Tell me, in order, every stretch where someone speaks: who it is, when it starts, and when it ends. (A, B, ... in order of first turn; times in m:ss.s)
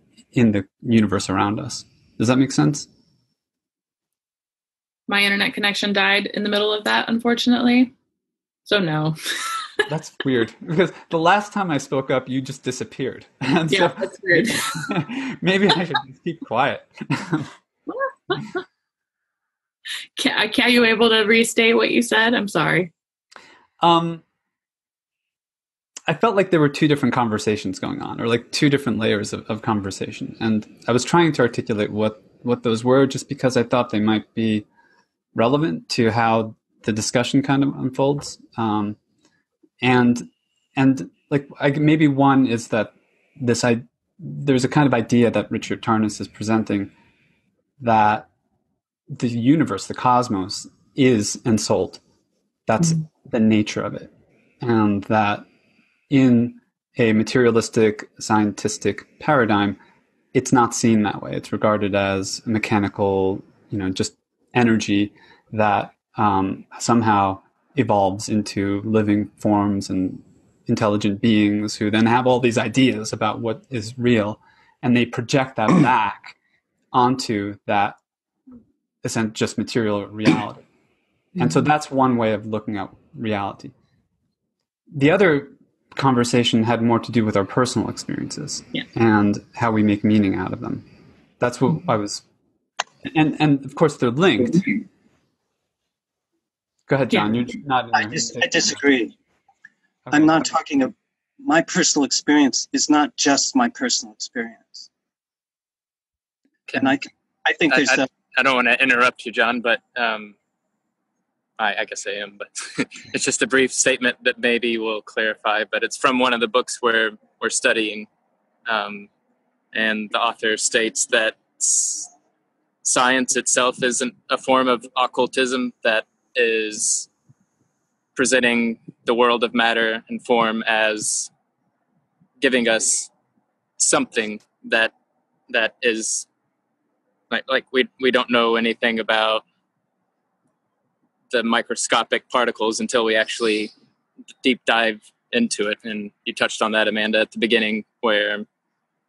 0:00.3-0:02.9 A
0:05.1-0:07.9 B
0:08.6-0:09.8 B
0:09.9-0:17.5 A
0:13.7-0:14.8 B
0:17.9-0:18.5 B
0:20.2-0:22.9 B
0:23.8-0:24.2 A
0:26.1-0:34.6 A
0:35.3-0:39.0 A
0:39.8-0:46.9 A
0:47.8-0:48.3 A
0:49.1-0:52.0 A
0:52.7-0:55.5 A
0:56.1-0:59.8 A
1:00.3-1:16.3 A
1:16.9-1:18.0 A
1:19.0-1:20.6 A
1:21.4-1:23.7 A
1:24.9-1:30.8 A
1:31.4-1:32.2 A
1:33.0-1:34.8 A
1:36.9-1:38.8 A
1:38.0-1:39.1 C
1:40.0-1:40.5 A
1:40.1-1:44.8 C
1:46.7-1:48.0 C
1:47.7-1:50.4 D
1:51.6-1:58.1 D
1:58.7-1:59.1 D
1:59.7-2:02.1 D
2:02.8-2:07.1 D
2:08.1-2:11.3 D
2:12.4-2:13.1 D
2:13.8-2:14.9 D
2:15.5-2:16.3 D
2:17.3-2:19.4 D
2:21.3-2:23.7 D
2:24.4-2:28.4 D